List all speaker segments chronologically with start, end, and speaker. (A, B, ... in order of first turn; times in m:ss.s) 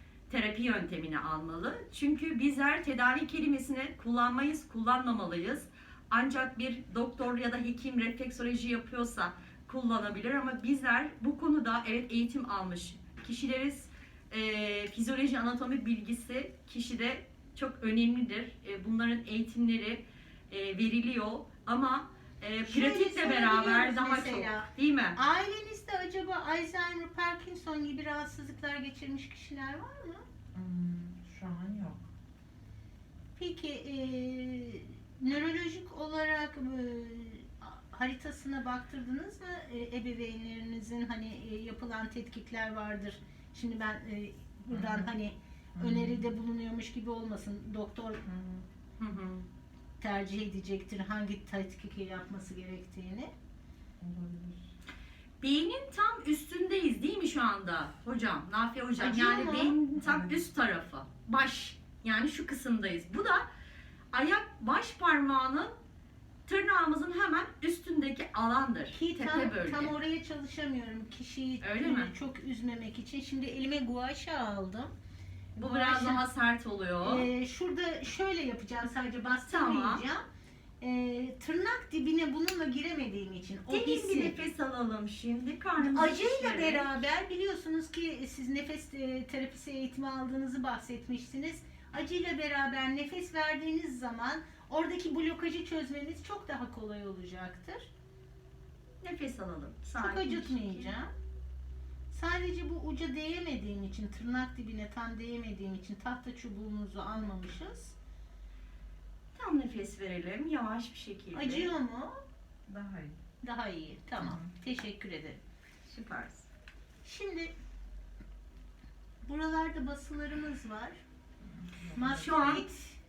0:00.3-0:25.2 A
0:22.6-0:30.2 B
0:30.5-0:32.0 C
0:33.4-0:48.2 B
0:44.7-0:45.1 C
0:45.7-0:46.2 C
0:48.3-0:48.6 C
0:49.0-0:49.4 A
0:50.0-0:53.3 B
0:54.0-0:54.7 C
0:55.4-1:03.4 A
0:59.0-0:59.8 B
1:00.0-1:00.4 C
1:04.1-1:05.7 A
1:06.5-1:09.9 A
1:08.9-1:14.9 B
1:11.6-1:12.1 A
1:15.6-1:17.3 A
1:15.6-1:16.2 B
1:17.0-1:20.2 B
1:19.5-1:20.0 A
1:20.8-1:24.4 B
1:23.7-1:27.0 A
1:25.8-1:37.9 B
1:39.0-1:40.9 A
1:40.0-1:41.1 B
1:42.1-1:47.9 B
1:49.3-1:51.7 A
1:51.3-1:52.1 B
1:52.7-1:53.2 C
1:53.4-1:55.4 B
1:54.2-1:54.5 C
1:55.8-1:56.5 A
1:57.0-1:57.5 B
1:59.2-2:01.0 B
2:01.4-2:02.5 C
2:01.9-2:03.0 B
2:02.0-2:02.6 A